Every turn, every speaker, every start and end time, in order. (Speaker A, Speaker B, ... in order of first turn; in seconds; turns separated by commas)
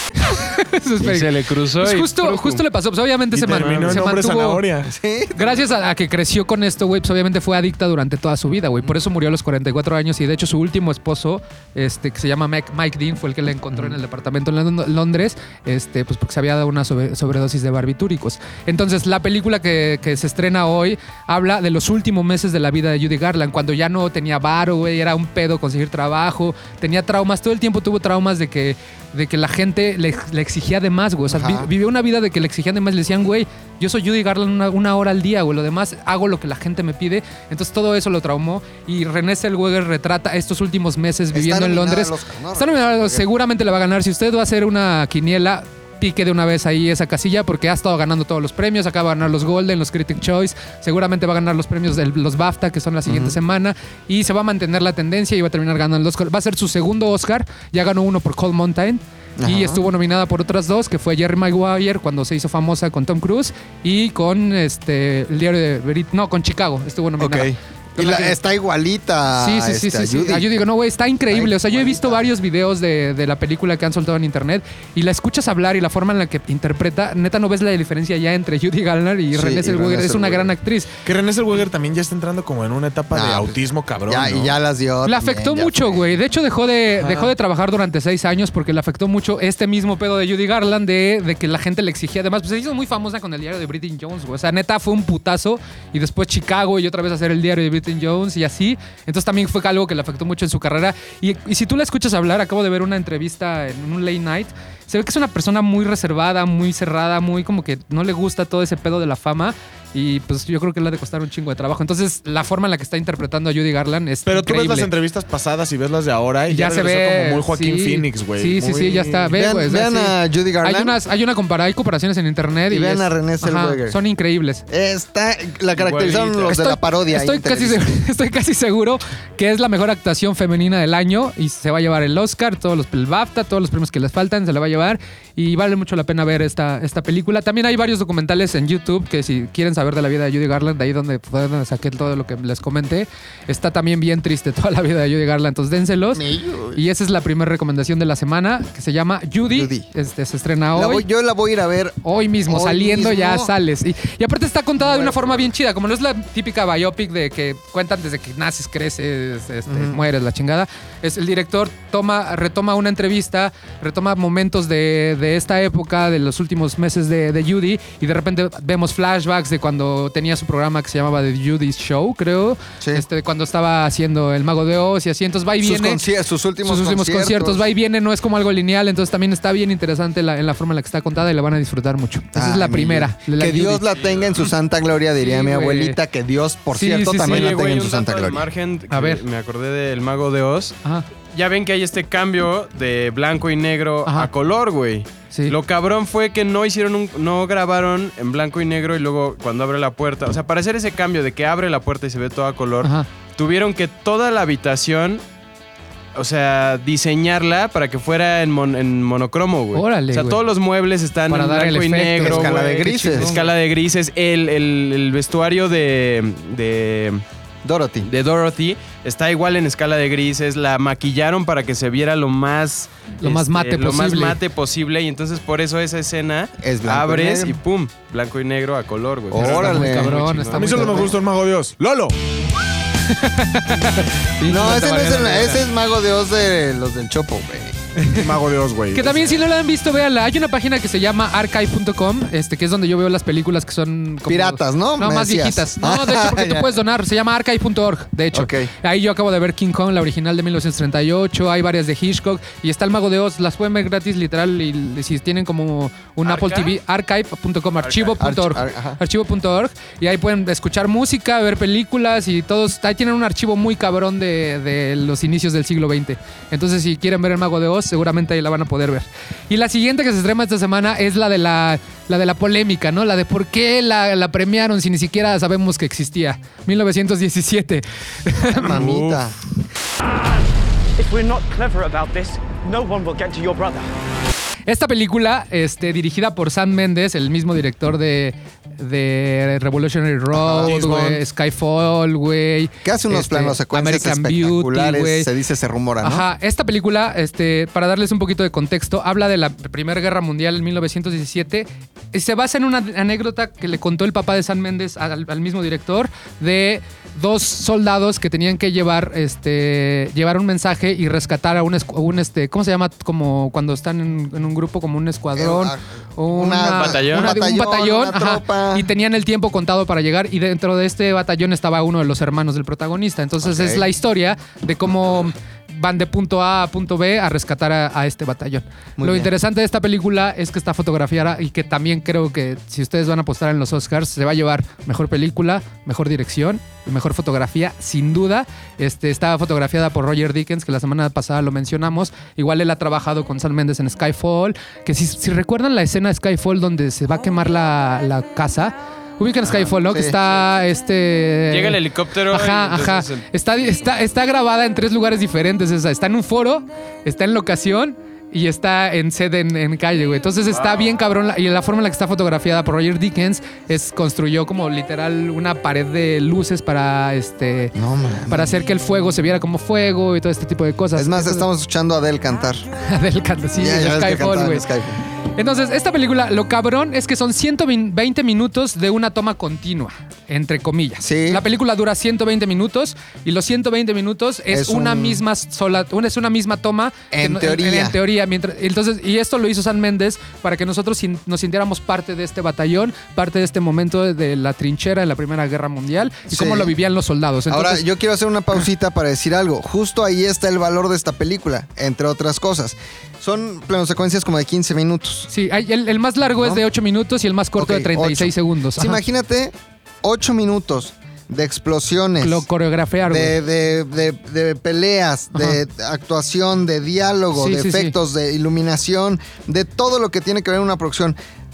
Speaker A: 0.2-4.6, Speaker B: 1.0-2.6, Speaker C: 3.3-4.9, Speaker B: 3.5-4.0, Speaker D: 4.8-5.7, Speaker A: 5.3-68.4, Speaker D: 31.3-31.7, Speaker D: 41.3-43.2, Speaker D: 53.0-53.4, Speaker D: 59.4-59.8, Speaker D: 67.2-70.5, Speaker A: 69.4-80.9, Speaker D: 71.3-72.3, Speaker D: 79.3-80.5, Speaker C: 81.0-84.5, Speaker D: 83.1-86.1, Speaker A: 85.0-114.9, Speaker C: 87.0-87.3, Speaker C: 114.2-118.9, Speaker A: 116.5-124.6, Speaker D: 118.6-121.0, Speaker D: 122.7-124.0, Speaker D: 124.7-127.9, Speaker B: 125.7-126.5, Speaker A: 126.5-146.2, Speaker D: 146.1-146.8, Speaker A: 146.7-151.0, Speaker D: 149.5-149.9, Speaker D: 150.7-153.5, Speaker A: 152.0-176.0, Speaker D: 154.8-155.5, Speaker D: 159.7-160.0, Speaker D: 175.6-177.7, Speaker A: 176.6-183.8, Speaker D: 182.3-188.4, Speaker B: 183.9-184.2, Speaker A: 185.2-186.0, Speaker A: 186.7-187.7, Speaker B: 187.2-190.8, Speaker A: 188.9-189.2, Speaker B: 191.3-205.2, Speaker A: 202.8-203.1, Speaker B: 206.1-217.2, Speaker A: 209.7-210.4, Speaker A: 211.3-213.5, Speaker D: 212.2-213.3, Speaker D: 217.6-218.1, Speaker B: 218.0-230.6, Speaker A: 223.2-224.4, Speaker D: 226.6-227.5, Speaker D: 229.3-231.1, Speaker A: 229.4-231.1, Speaker C: 230.5-232.2, Speaker A: 233.1-235.6, Speaker D: 234.4-237.8, Speaker A: 238.0-238.3, Speaker C: 238.1-239.4, Speaker A: 238.9-278.8, Speaker D: 244.3-246.7, Speaker D: 248.3-248.7, Speaker B: 256.2-256.7, Speaker B: 257.8-258.2, Speaker D: 258.2-259.0, Speaker D: 278.5-279.3, Speaker B: 278.7-279.2, Speaker E: 281.0-283.9, Speaker A: 284.7-295.3, Speaker D: 290.3-291.2, Speaker C: 290.6-291.0, Speaker D: 292.8-296.2, Speaker A: 296.0-367.7, Speaker D: 315.4-318.9, Speaker B: 316.8-317.4, Speaker D: 323.4-323.8, Speaker D: 329.0-329.3, Speaker D: 349.4-350.1, Speaker B: 351.5-353.2, Speaker B: 360.5-360.9, Speaker D: 367.8-368.5, Speaker A: 368.3-371.4, Speaker D: 370.9-372.6, Speaker A: 372.8-374.6, Speaker D: 373.5-375.0, Speaker A: 375.3-397.8, Speaker D: 381.0-381.4, Speaker D: 384.5-385.2, Speaker D: 387.1-388.0, Speaker D: 396.3-396.7, Speaker D: 397.5-405.3, Speaker A: 405.3-409.0, Speaker D: 406.4-406.6, Speaker D: 407.6-412.4, Speaker A: 412.2-413.4, Speaker D: 413.1-421.2, Speaker A: 415.3-415.6, Speaker A: 417.3-417.9